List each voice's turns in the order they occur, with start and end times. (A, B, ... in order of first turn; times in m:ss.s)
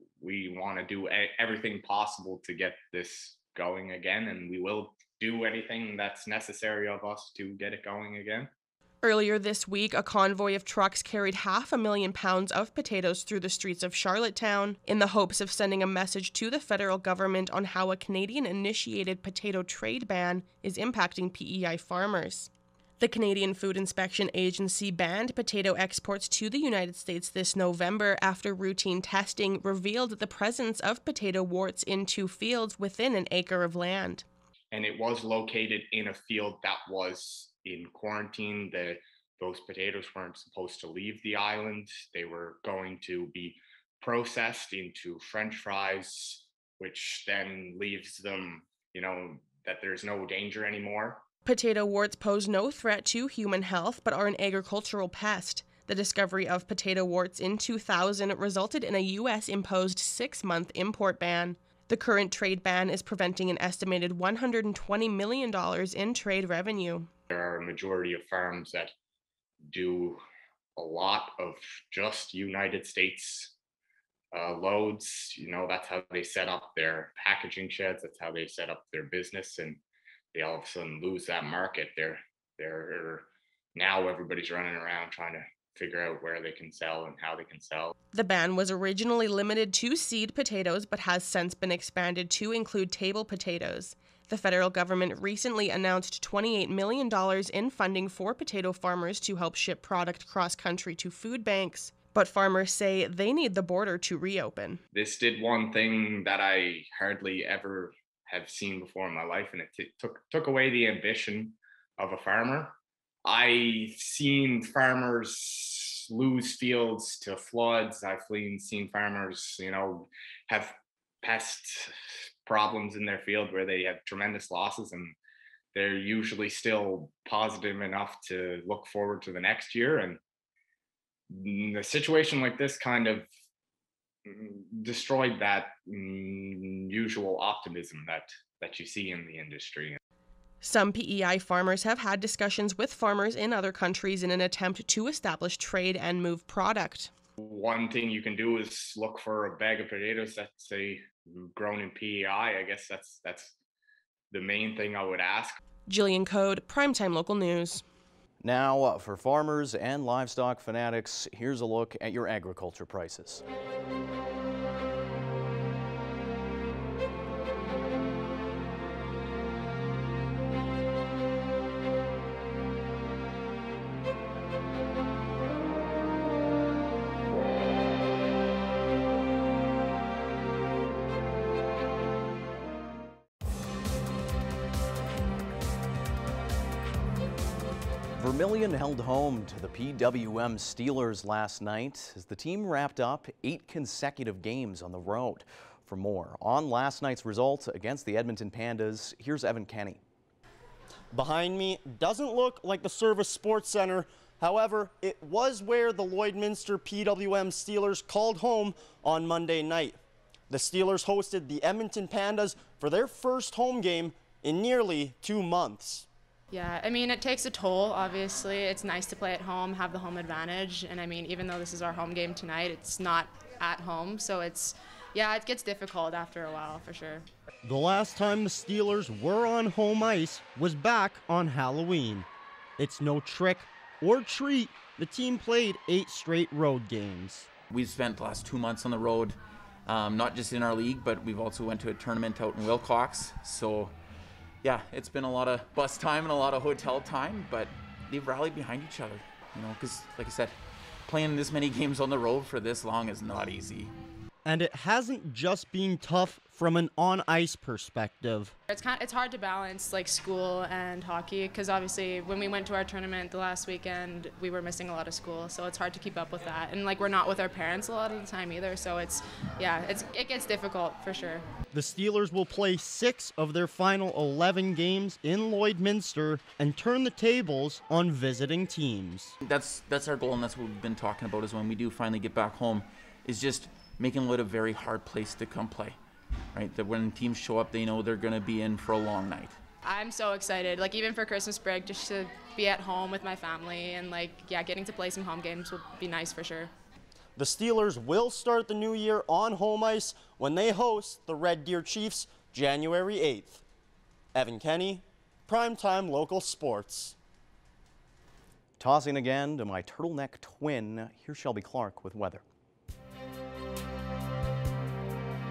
0:00.2-0:08.5 A
0:09.0-0:34.2 B
0:34.7-0:51.2 A
0:51.4-1:07.1 B
1:07.3-1:08.9 A
1:09.7-1:10.2 A
1:10.8-1:13.5 A
1:14.3-1:19.8 A
1:20.3-1:27.9 A
1:28.1-1:44.8 B
1:44.9-2:05.2 A
2:05.7-2:10.2 A
2:11.3-2:13.3 A
2:14.2-2:20.0 A
2:20.6-2:27.1 B
2:27.4-2:33.6 A
2:34.3-2:35.6 A
2:35.9-2:37.8 B
2:38.4-2:43.4 C
3:08.2-3:20.0 C
3:21.1-3:36.1 D
3:36.5-3:47.3 E
3:47.6-3:52.2 D
3:52.8-3:57.5 D
3:57.7-4:04.0 F
4:04.6-4:13.9 F
4:14.4-4:18.6 D
4:18.7-4:31.4 E
4:31.7-4:39.3 D
4:39.4-4:46.0 F
4:46.5-4:49.6 F
4:49.8-4:56.7 E
4:57.4-5:03.6 D
5:04.3-5:07.2 D
5:08.8-5:12.4 C